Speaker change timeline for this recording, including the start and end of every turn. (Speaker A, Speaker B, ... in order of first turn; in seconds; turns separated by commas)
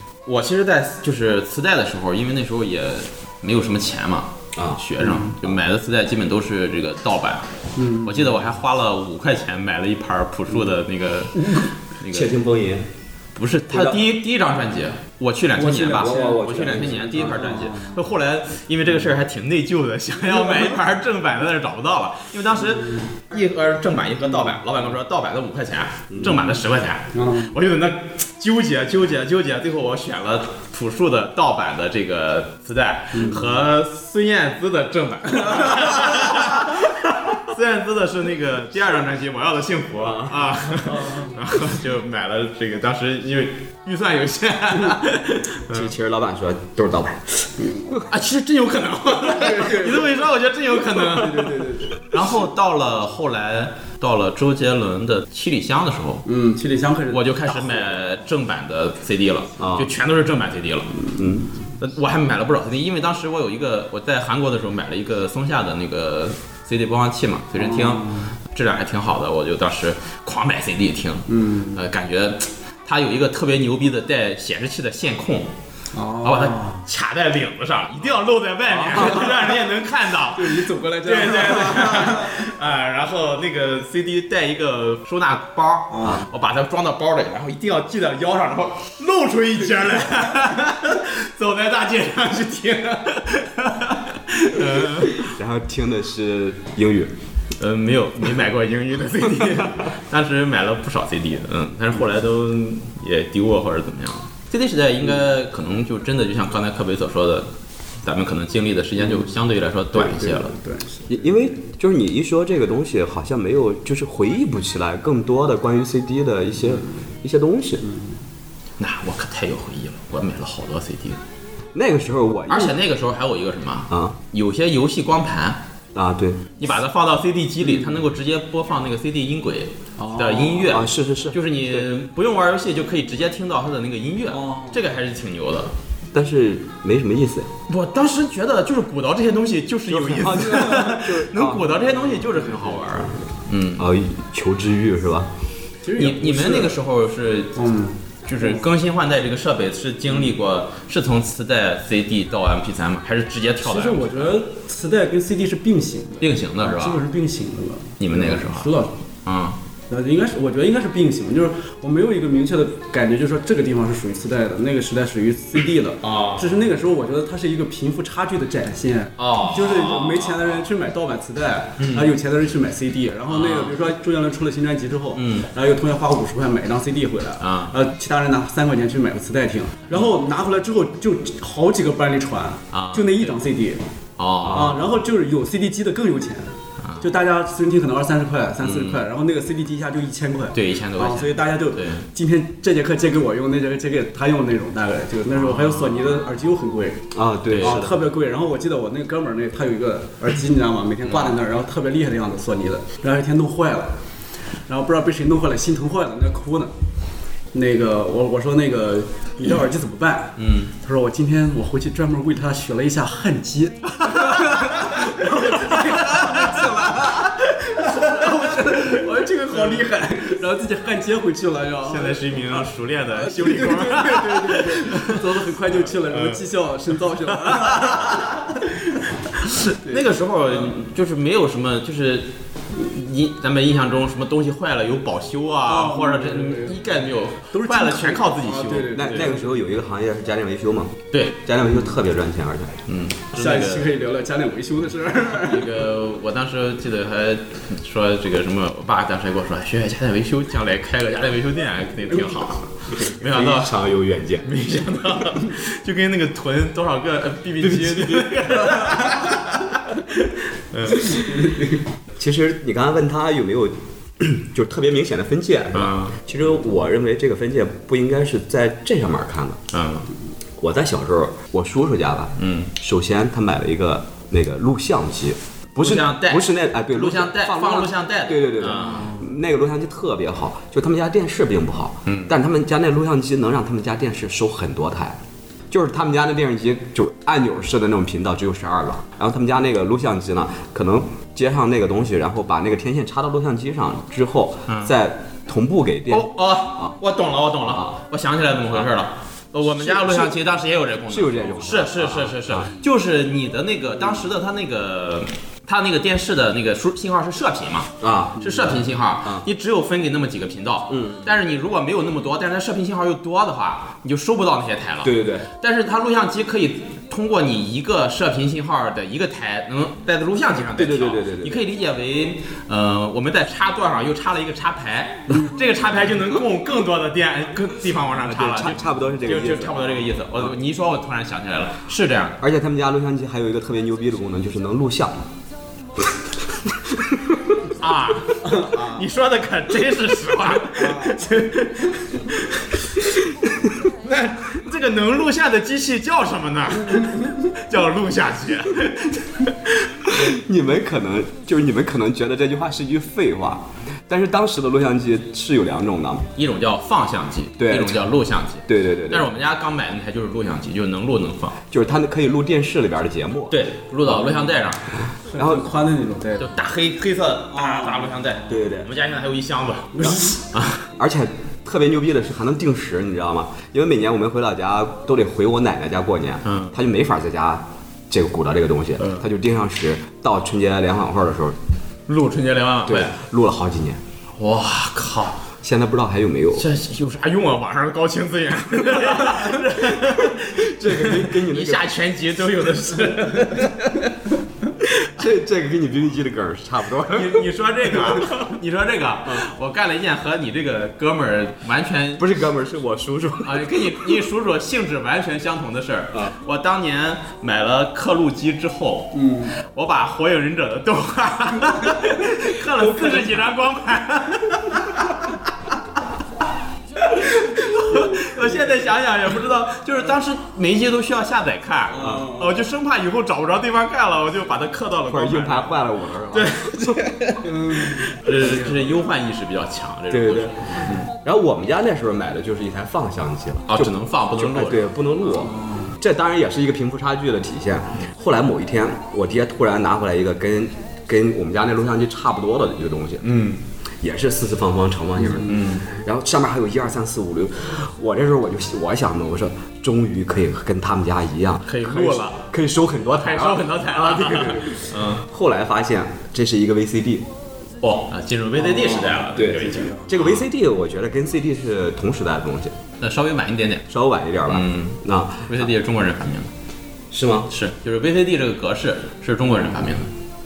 Speaker A: 0.2-7.5, Speaker B: 4.5-4.8, Speaker C: 5.0-5.3, Speaker C: 7.8-8.3, Speaker A: 8.0-12.3, Speaker B: 12.1-12.9, Speaker A: 13.3-45.9, Speaker B: 13.7-14.0, Speaker C: 15.6-18.0, Speaker B: 15.9-17.3, Speaker C: 22.7-23.0, Speaker B: 26.1-26.4, Speaker C: 27.1-27.6, Speaker C: 33.1-33.5, Speaker C: 35.5-35.8, Speaker B: 40.1-40.4, Speaker C: 40.8-41.4, Speaker B: 45.7-47.5, Speaker C: 47.6-48.0, Speaker A: 48.1-56.2, Speaker C: 49.2-50.2, Speaker C: 50.9-52.0, Speaker C: 56.2-57.9, Speaker A: 57.1-61.0, Speaker B: 59.6-59.9, Speaker B: 61.1-61.5, Speaker A: 61.8-75.5, Speaker C: 67.5-68.3, Speaker C: 71.3-71.8, Speaker C: 75.9-76.8, Speaker A: 76.2-95.3, Speaker C: 78.7-79.6, Speaker C: 80.3-82.4, Speaker C: 85.9-86.3, Speaker B: 95.1-97.1, Speaker A: 97.6-107.5, Speaker A: 108.0-110.5, Speaker C: 110.1-111.6, Speaker B: 111.1-117.8, Speaker C: 117.8-118.1, Speaker A: 118.8-121.2, Speaker B: 121.7-122.8, Speaker A: 122.5-125.6, Speaker B: 123.9-124.2, Speaker B: 125.9-126.5, Speaker A: 126.6-135.7, Speaker C: 127.6-128.0, Speaker C: 130.0-130.7, Speaker B: 130.7-131.9, Speaker C: 134.3-134.8, Speaker B: 136.1-137.5, Speaker A: 137.7-143.9, Speaker B: 139.9-141.8, Speaker C: 140.4-141.1, Speaker C: 141.8-142.8, Speaker B: 143.8-145.3, Speaker C: 145.8-146.8, Speaker A: 145.9-147.6, Speaker C: 147.6-148.6, Speaker A: 148.2-154.4, Speaker C: 153.6-158.9, Speaker A: 156.2-157.0, Speaker A: 158.0-158.7, Speaker A: 159.2-159.6, Speaker C: 159.9-183.8, Speaker A: 166.0-166.5, Speaker A: 169.2-170.5, Speaker A: 171.8-172.2, Speaker A: 173.3-173.8, Speaker A: 175.2-175.5, Speaker A: 177.4-177.7, Speaker A: 182.7-183.3, Speaker A: 184.2-184.8, Speaker C: 184.4-204.0, Speaker A: 188.6-189.0, Speaker A: 190.5-192.0, Speaker A: 195.3-196.2, Speaker B: 197.1-198.0, Speaker A: 197.5-197.8, Speaker A: 201.0-201.4, Speaker C: 204.7-206.7, Speaker C: 207.5-228.8, Speaker A: 210.4-210.7, Speaker A: 214.0-219.9, Speaker A: 221.8-225.3, Speaker A: 226.0-226.4, Speaker A: 227.3-228.3, Speaker A: 229.4-239.3, Speaker C: 229.5-230.7, Speaker C: 235.7-236.8, Speaker C: 237.5-239.6, Speaker B: 238.9-242.8, Speaker A: 241.1-241.4, Speaker A: 242.9-243.9, Speaker C: 243.3-245.7, Speaker A: 245.3-253.7, Speaker B: 253.2-254.5, Speaker A: 254.4-261.2, Speaker C: 258.1-258.9, Speaker C: 261.1-261.8, Speaker B: 262.2-269.6, Speaker A: 265.7-266.2, Speaker A: 269.7-270.1, Speaker B: 270.6-285.2, Speaker A: 272.4-272.7, Speaker A: 275.8-279.2, Speaker A: 282.1-282.4, Speaker B: 285.7-296.9, Speaker A: 296.1-332.4, Speaker B: 297.7-297.9, Speaker B: 299.6-300.3, Speaker B: 301.1-302.7, Speaker B: 308.0-309.4, Speaker B: 310.9-311.3, Speaker B: 315.0-315.5, Speaker B: 320.7-321.6, Speaker B: 328.2-330.5, Speaker B: 332.4-335.3, Speaker B: 336.7-337.4, Speaker A: 337.8-343.0, Speaker C: 338.4-339.0, Speaker C: 340.7-341.2, Speaker B: 343.4-343.8, Speaker A: 343.9-350.2, Speaker B: 350.0-356.3, Speaker A: 356.4-361.6, Speaker B: 357.6-358.1, Speaker B: 358.6-359.3, Speaker B: 361.7-363.6, Speaker A: 363.5-364.8, Speaker B: 364.1-364.4, Speaker C: 365.3-366.5, Speaker B: 365.3-365.7, Speaker A: 366.4-370.9, Speaker C: 367.5-368.5, Speaker B: 368.5-368.9, Speaker C: 369.9-370.4, Speaker B: 370.9-381.6, Speaker A: 376.4-376.8, Speaker A: 379.0-379.2, Speaker A: 382.1-383.1, Speaker B: 382.9-384.0, Speaker A: 384.4-385.4, Speaker B: 385.6-386.7, Speaker A: 386.6-394.1, Speaker B: 390.5-391.9, Speaker B: 394.8-397.5, Speaker A: 397.1-402.4, Speaker B: 402.2-403.9, Speaker A: 403.4-415.4, Speaker C: 409.1-409.6, Speaker B: 413.0-413.3, Speaker A: 417.0-431.1, Speaker C: 417.8-418.6, Speaker C: 421.9-422.6, Speaker B: 425.1-427.1, Speaker C: 427.4-429.0, Speaker B: 430.1-430.7, Speaker B: 431.2-443.3, Speaker A: 433.7-435.5, Speaker C: 435.4-436.0, Speaker A: 443.2-443.6, Speaker B: 444.0-457.2, Speaker A: 445.4-445.9, Speaker A: 451.7-452.5, Speaker A: 453.1-455.2, Speaker A: 457.8-460.5, Speaker C: 458.6-460.1, Speaker B: 459.3-462.8, Speaker A: 463.0-463.9, Speaker B: 463.9-465.7, Speaker A: 464.5-466.5, Speaker B: 467.1-467.5, Speaker A: 467.5-470.1